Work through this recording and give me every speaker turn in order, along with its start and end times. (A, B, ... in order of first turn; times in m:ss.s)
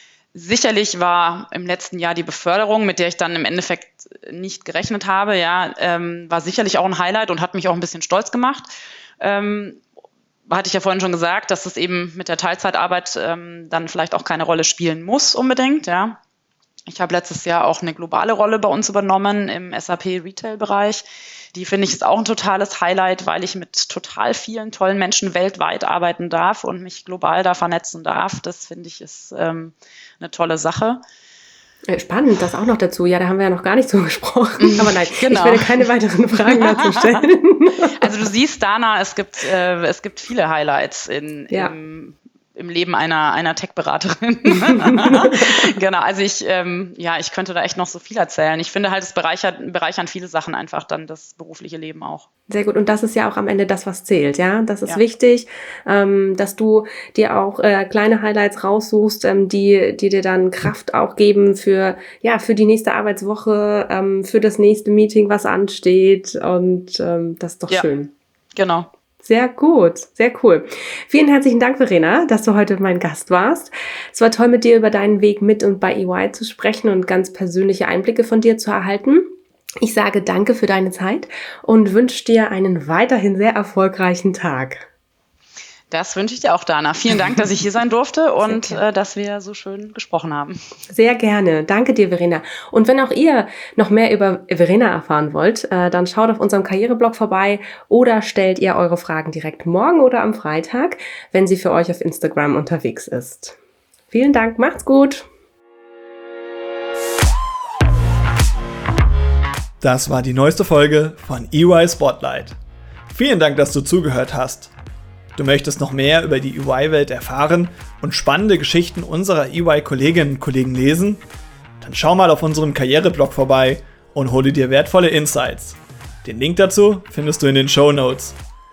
0:00.3-0:08.7 A
0:09.2-0:09.8 A
0:10.5-0:16.2 A
0:16.9-0:31.0 A
0:31.9-0:38.1 B
0:34.6-0:35.8 A
0:36.5-0:37.1 A
0:37.9-0:52.2 A
0:44.6-0:45.7 B
0:52.5-1:08.1 B
1:08.6-1:08.9 A
1:09.2-1:19.3 B
1:19.8-1:24.9 B
1:25.9-1:30.6 A
1:28.4-1:28.8 B
1:30.9-1:43.6 B
1:44.1-1:45.3 B
1:49.8-1:52.6 C
1:53.1-1:54.7 C
1:55.4-2:01.2 C
2:01.8-2:08.4 C